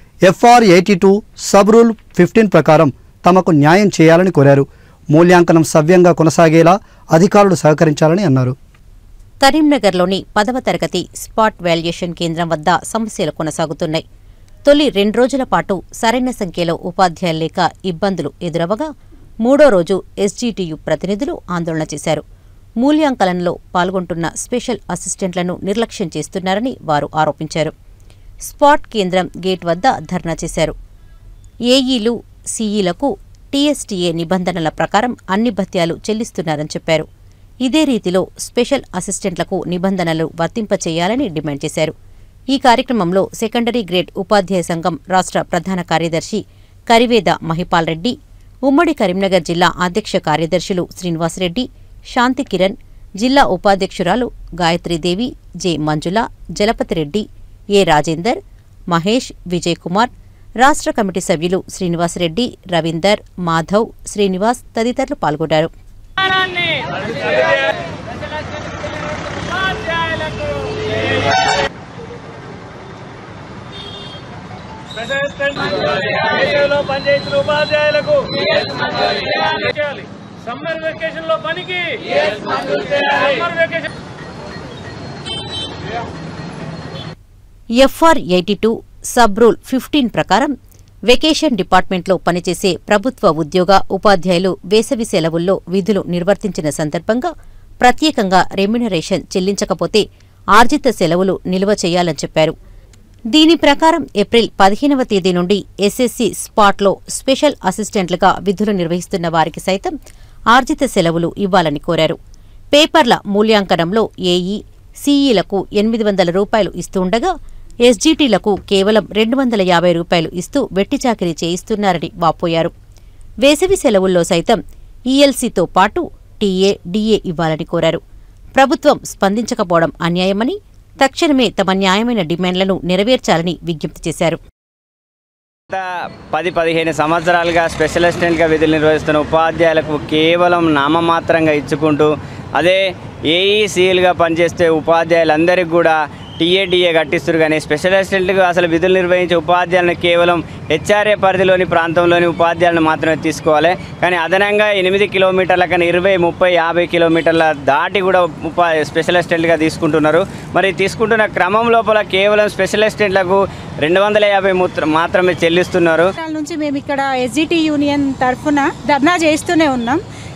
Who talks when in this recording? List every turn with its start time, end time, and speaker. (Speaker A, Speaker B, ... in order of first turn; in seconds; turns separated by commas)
Speaker A: 0.2-8.6, Speaker B: 9.4-14.0, Speaker B: 14.7-18.9, Speaker B: 19.4-22.2, Speaker B: 22.8-27.7, Speaker B: 28.4-30.7, Speaker B: 31.7-37.1, Speaker B: 37.6-41.9, Speaker B: 42.5-48.1, Speaker B: 48.7-57.2, Speaker B: 57.8-58.4, Speaker B: 58.9-65.7, Speaker C: 66.5-67.7, Speaker C: 69.4-70.8, Speaker C: 75.0-83.9, Speaker D: 76.5-78.1, Speaker B: 87.8-90.5, Speaker B: 91.1-97.3, Speaker B: 97.8-100.0, Speaker B: 100.5-102.5, Speaker B: 103.3-109.9, Speaker B: 110.5-112.2, Speaker B: 112.7-117.3, Speaker B: 117.8-122.7, Speaker B: 123.4-124.6, Speaker B: 125.1-128.0, Speaker B: 128.6-134.4, Speaker D: 135.7-166.1, Speaker E: 166.1-170.0